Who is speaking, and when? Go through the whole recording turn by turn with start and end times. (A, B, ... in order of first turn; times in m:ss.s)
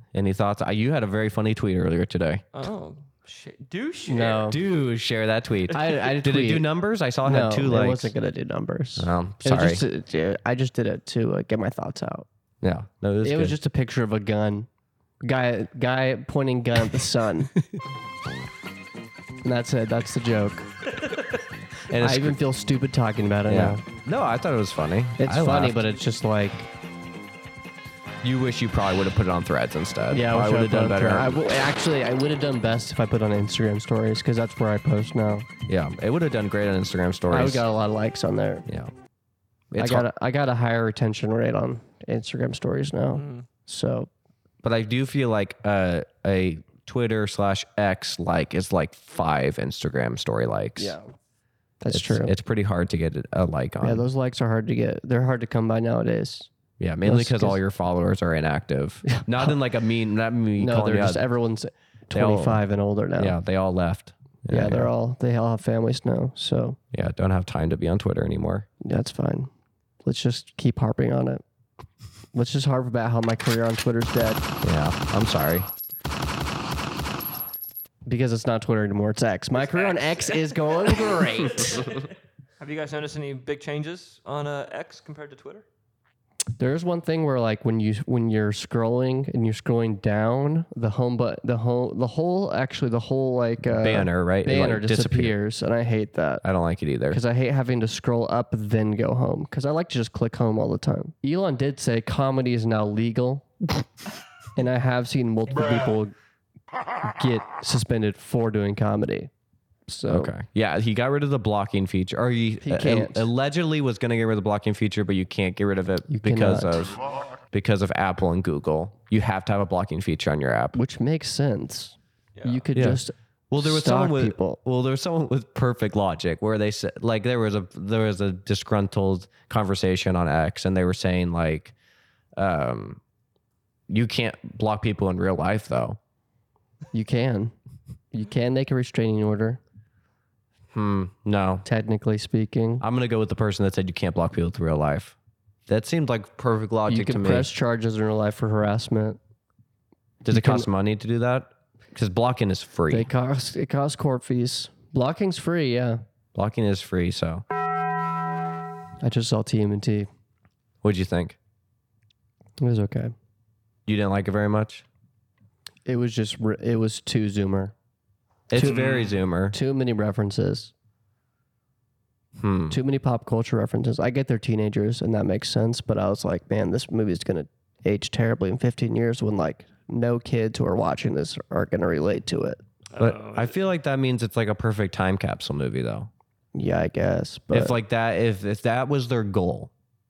0:00.1-0:02.4 A
0:02.5-0:04.6 B
0:04.1-0:04.6 C
0:04.5-0:08.1 A
0:05.7-0:06.6 C
0:07.2-0:12.2 C
0:09.0-0:09.8 A
0:12.6-0:13.6 A
0:13.2-0:14.7 C
0:15.2-0:17.5 C
0:19.4-0:20.7 C
0:21.9-0:22.4 A
0:22.0-0:23.8 C
0:23.4-0:25.8 A
0:25.2-0:26.7 C
0:28.2-0:31.4 A
0:30.1-0:35.5 C
0:35.6-0:37.6 A
0:37.3-0:38.6 C
0:38.7-0:38.9 A
0:39.7-0:40.1 A
0:39.8-0:44.1 C
0:43.1-0:43.5 B
0:44.6-0:51.0 A
0:50.8-0:51.1 C
0:51.8-0:52.3 C
0:51.9-0:54.0 A
0:53.8-0:56.5 C
0:56.8-1:01.2 A
0:57.0-0:57.6 C
0:59.1-0:59.5 C
1:00.6-1:03.4 C
1:02.1-1:02.6 A
1:03.2-1:04.9 A
1:04.5-1:06.8 C
1:06.9-1:08.7 A
1:08.8-1:09.5 C
1:10.0-1:11.4 C
1:12.3-1:14.4 C
1:14.6-1:15.7 A
1:18.0-1:21.8 C
1:19.5-1:25.6 B
1:26.6-1:36.4 C
1:33.7-1:35.4 A
1:36.4-1:37.2 A
1:37.1-1:43.5 C
1:44.6-1:46.1 C
1:47.1-1:49.3 C
1:49.9-1:50.3 C
1:50.1-2:00.8 A
1:52.6-1:53.3 C
1:56.1-1:56.8 C
2:00.7-2:04.6 C
2:02.4-2:02.6 B
2:02.7-2:11.7 A
2:12.4-2:13.0 A
2:13.9-2:16.0 A
2:16.9-2:17.5 C
2:18.1-2:19.6 C
2:20.7-2:21.6 A
2:21.6-2:22.8 C
2:22.8-2:25.2 A
2:25.7-2:27.5 A
2:26.9-2:29.2 C
2:30.2-2:33.1 A
2:30.3-2:30.7 C
2:32.9-2:36.0 C
2:36.3-2:37.4 A
2:39.0-2:40.1 C
2:40.8-2:41.4 A
2:42.6-2:43.1 C
2:43.8-2:44.8 A
2:45.8-2:47.7 C
2:48.5-2:49.6 A
2:48.5-2:50.7 C
2:48.6-2:49.2 B
2:52.4-2:52.8 A
2:52.7-3:02.6 C
3:02.9-3:03.7 B
3:03.0-3:06.1 A
3:06.5-3:07.7 C
3:07.5-3:09.7 A